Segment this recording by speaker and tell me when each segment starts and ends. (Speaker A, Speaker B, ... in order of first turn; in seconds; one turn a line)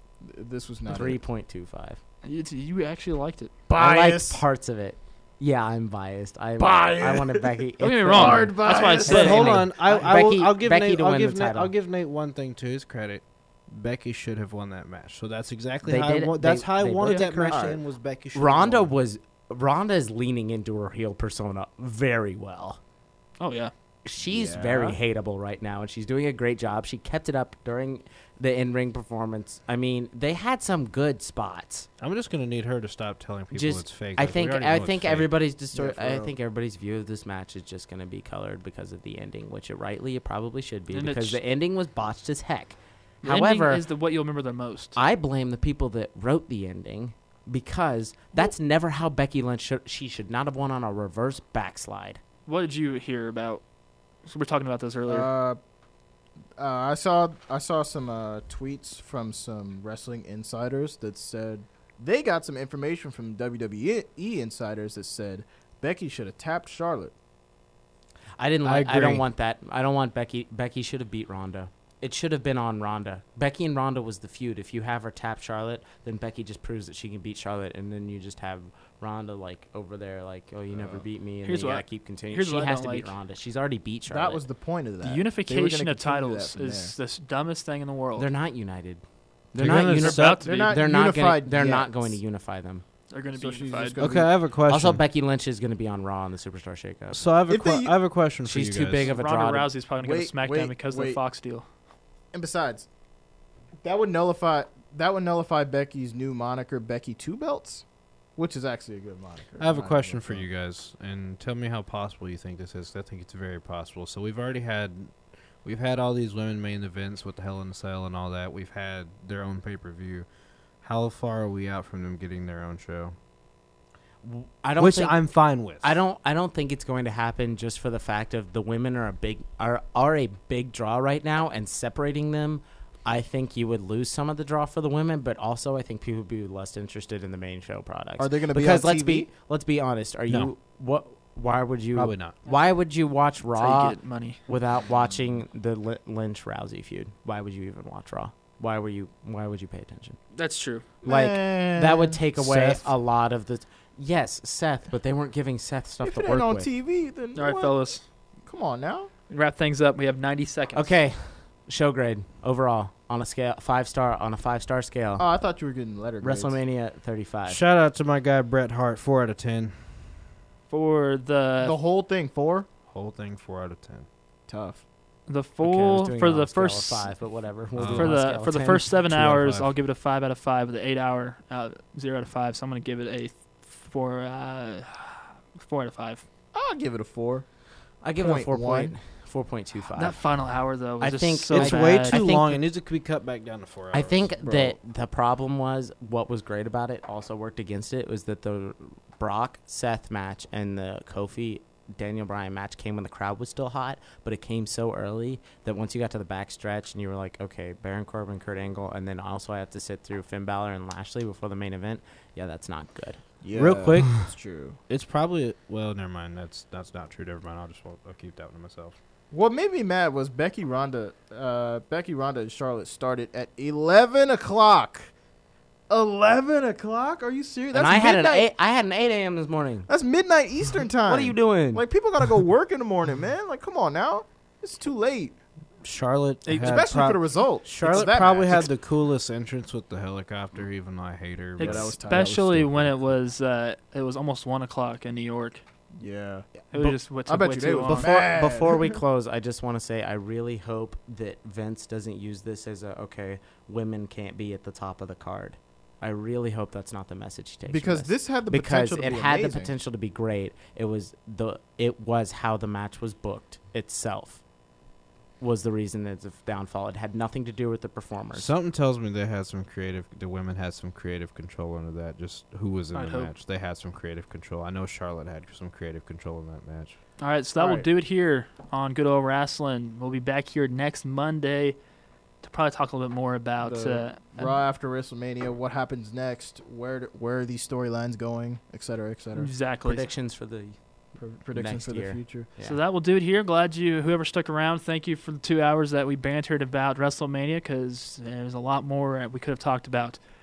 Speaker A: 0.2-1.2
Speaker B: 0.9-2.0
Speaker C: 2.2-3.5
Speaker A: 3.7-4.4
Speaker B: 3.7-11.7
Speaker A: 6.6-7.5
Speaker C: 7.8-9.9
Speaker A: 8.1-9.5
Speaker D: 9.1-18.9
Speaker B: 15.8-17.6
Speaker A: 17.1-17.8
Speaker B: 18.3-22.8
Speaker C: 23.4-23.7
Speaker B: 24.1-31.9
Speaker A: 24.2-25.0
Speaker D: 32.0-35.3
Speaker B: 33.5-43.9
Speaker A: 35.7-36.3
Speaker C: 40.9-41.4
Speaker C: 43.2-45.0
Speaker B: 45.0-52.2
Speaker C: 52.5-53.6
Speaker C: 54.2-55.3
Speaker A: 55.1-55.6
Speaker A: 56.6-67.1
Speaker B: 68.4-84.4
Speaker D: 68.6-69.3
Speaker A: 80.7-81.0
Speaker C: 81.4-83.1
Speaker A: 84.1-86.9
Speaker C: 85.0-88.3
Speaker B: 88.2-92.8
Speaker D: 89.5-90.5
Speaker C: 90.0-90.8
Speaker A: 90.4-92.1
Speaker C: 93.1-94.0
Speaker A: 93.3-94.3
Speaker D: 94.0-95.0
Speaker B: 94.7-97.2
Speaker D: 97.1-99.1
Speaker A: 97.5-97.9
Speaker B: 98.4-99.7
Speaker C: 99.1-101.6
Speaker A: 100.0-101.2
Speaker A: 102.3-102.9
Speaker A: 103.8-107.8
Speaker A: 108.3-110.4
Speaker D: 109.6-120.3
Speaker D: 120.8-123.2
Speaker B: 124.2-150.2
Speaker D: 124.8-126.0
Speaker A: 138.2-139.3
Speaker D: 141.9-142.4
Speaker C: 143.6-144.4
Speaker C: 150.3-150.8
Speaker A: 151.0-152.2
Speaker B: 151.1-156.7
Speaker D: 152.4-152.9
Speaker A: 156.0-157.9
Speaker C: 157.3-158.0
Speaker A: 158.4-159.1
Speaker C: 159.3-161.0
Speaker B: 160.7-165.3
Speaker A: 165.2-166.6
Speaker B: 166.2-167.6
Speaker D: 167.5-170.1
Speaker C: 170.7-171.8
Speaker A: 171.6-172.7
Speaker D: 172.9-174.1
Speaker A: 174.5-174.8
Speaker C: 175.3-177.1
Speaker B: 175.6-178.9
Speaker D: 177.7-178.3
Speaker C: 177.9-186.2
Speaker D: 178.9-179.7
Speaker A: 186.5-187.5
Speaker B: 188.0-190.4
Speaker A: 188.2-188.9
Speaker C: 189.9-192.2
Speaker B: 191.0-192.7
Speaker D: 191.5-194.3
Speaker B: 193.9-213.3
Speaker A: 194.4-194.8
Speaker A: 213.4-214.8
Speaker D: 213.5-219.0
Speaker A: 219.3-225.1
Speaker A: 225.9-228.5
Speaker B: 227.7-229.9
Speaker A: 229.9-235.3
Speaker B: 231.1-231.8
Speaker D: 235.8-243.1
Speaker C: 236.4-237.0
Speaker A: 236.6-238.7
Speaker C: 237.8-238.6
Speaker C: 241.6-245.6
Speaker A: 241.6-242.4
Speaker A: 246.0-249.0
Speaker C: 246.7-248.1
Speaker B: 247.8-264.4
Speaker A: 257.7-259.7
Speaker B: 265.4-268.5
Speaker D: 268.3-277.0
Speaker C: 272.9-273.3
Speaker C: 277.2-281.8
Speaker A: 277.6-277.9
Speaker C: 282.4-284.6
Speaker A: 283.6-289.5
Speaker C: 289.4-290.1
Speaker B: 289.8-292.8
Speaker A: 291.1-292.5
Speaker C: 292.6-300.2